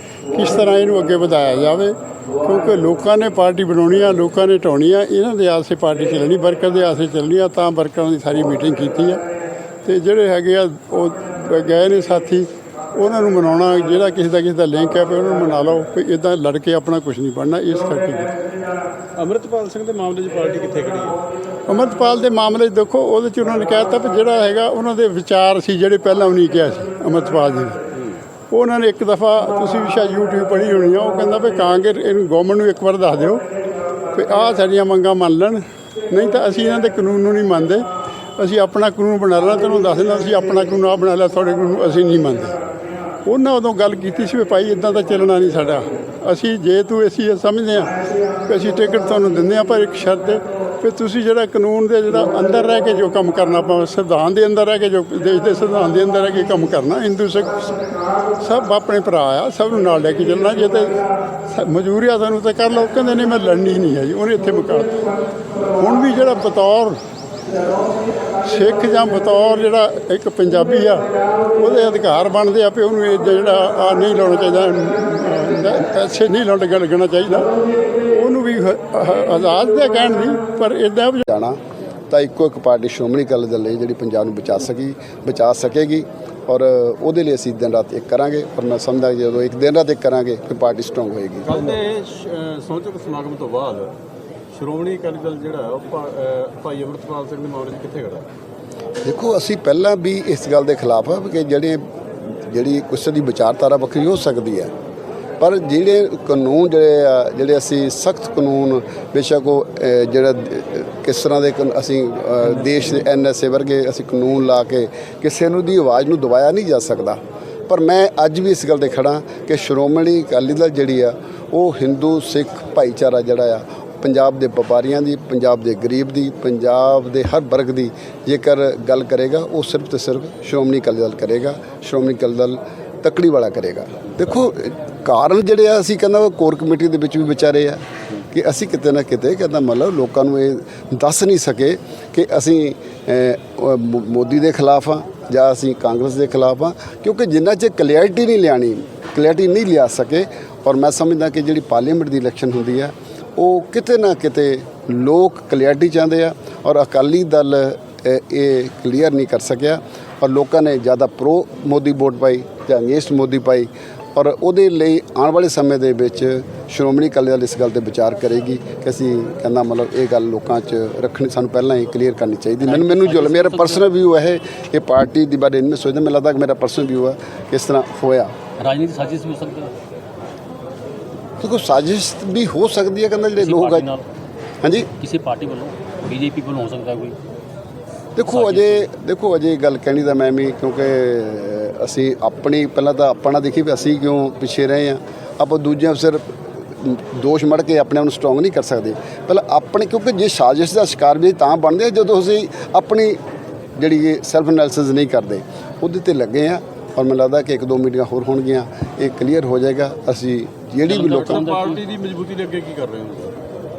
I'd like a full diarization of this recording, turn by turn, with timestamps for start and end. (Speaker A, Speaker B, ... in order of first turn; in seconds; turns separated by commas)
Speaker A: 0.3-9.2, Speaker A: 9.8-18.3, Speaker B: 19.2-21.2, Speaker A: 21.7-27.8, Speaker A: 28.5-33.4, Speaker A: 34.1-42.6, Speaker A: 43.2-47.9, Speaker A: 48.5-57.7, Speaker A: 58.4-65.1, Speaker A: 65.6-67.0, Speaker A: 68.4-71.0, Speaker A: 71.6-77.5, Speaker A: 78.1-81.2, Speaker C: 81.2-81.6, Speaker C: 82.1-91.5, Speaker B: 91.5-93.9, Speaker B: 94.5-98.3, Speaker C: 99.0-104.7, Speaker C: 105.4-178.3, Speaker D: 172.6-173.8, Speaker D: 178.6-179.7, Speaker C: 181.4-183.9, Speaker D: 183.4-184.0, Speaker C: 184.6-184.9, Speaker D: 185.0-187.2, Speaker C: 188.2-203.2, Speaker D: 188.2-188.9, Speaker C: 203.8-211.4, Speaker D: 210.9-211.8, Speaker B: 210.9-213.4